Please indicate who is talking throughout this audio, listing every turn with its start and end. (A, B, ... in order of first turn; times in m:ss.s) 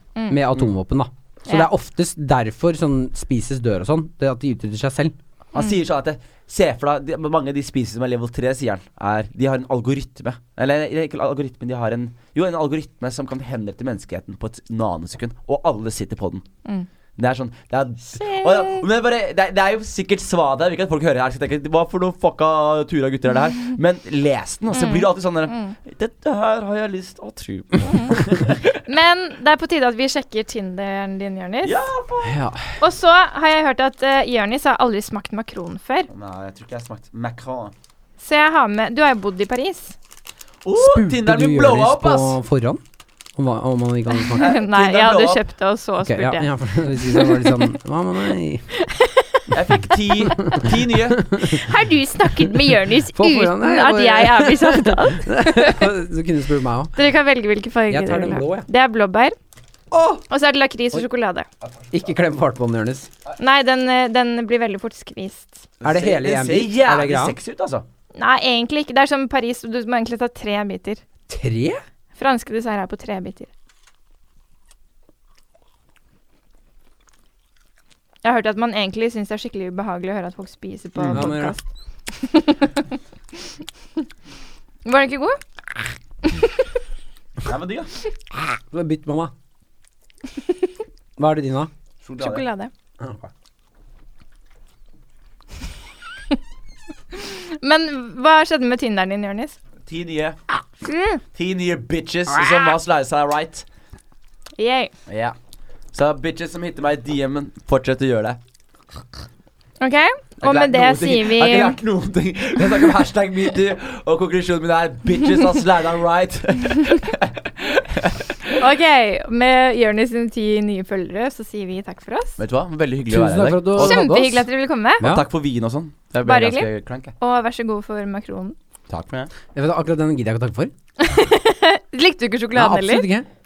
0:00.3-0:05.1 A
0:05.5-0:16.4 B
0:17.2-0:28.8 B
0:18.2-0:18.8 C
0:24.7-0:25.7 C
0:27.8-0:28.2 C
0:28.8-0:31.8 C
0:31.6-0:32.4 B
0:32.2-0:32.7 A
0:32.8-0:36.1 C
0:36.1-0:37.7 B
0:38.2-0:39.9 C
0:40.6-0:42.4 B
0:40.8-0:42.8 A
0:43.4-0:44.5 A
0:44.2-0:47.8 C
0:44.4-0:45.4 B
0:46.0-0:48.6 A
0:48.7-0:50.6 C
0:49.5-0:51.3 B
0:50.3-0:51.6 A
0:51.4-0:55.9 C
0:53.1-0:57.0 A
0:57.0-0:59.3 C
0:57.9-0:58.7 A
0:59.9-1:00.2 A
1:00.3-1:01.5 C
1:01.9-1:03.1 A
1:03.4-1:05.7 C
1:05.8-1:07.8 B
1:05.8-1:07.4 A
1:08.2-1:11.0 C
1:11.3-1:11.8 A
1:12.2-1:13.5 C
1:18.2-1:21.6 C
1:21.0-1:21.3 B
1:21.1-1:21.6 A
1:22.1-1:22.9 C
1:24.8-1:25.4 C
1:26.2-1:26.6 C
1:27.4-1:27.9 B
1:28.7-1:29.3 A
1:31.2-1:31.7 A
1:32.0-1:32.4 B
1:32.2-1:32.7 C
1:33.0-1:33.3 A
1:37.1-1:39.6 C
1:39.8-1:40.4 B
1:40.8-1:41.2 C
1:41.3-1:43.6 B
1:42.4-1:42.7 C
1:44.6-1:44.9 C
1:45.1-1:45.3 B
1:45.9-1:48.4 B
1:49.8-1:51.8 C
1:50.4-1:58.6 B
1:58.6-2:02.4 C
2:02.4-2:04.0 B
2:03.1-2:04.4 A
2:03.7-2:05.0 C
2:05.0-2:05.2 A
2:05.0-2:07.1 B
2:06.2-2:06.7 C
2:07.2-2:08.5 C
2:08.9-2:09.3 B
2:09.5-2:10.7 A
2:11.0-2:13.1 C
2:12.5-2:13.3 A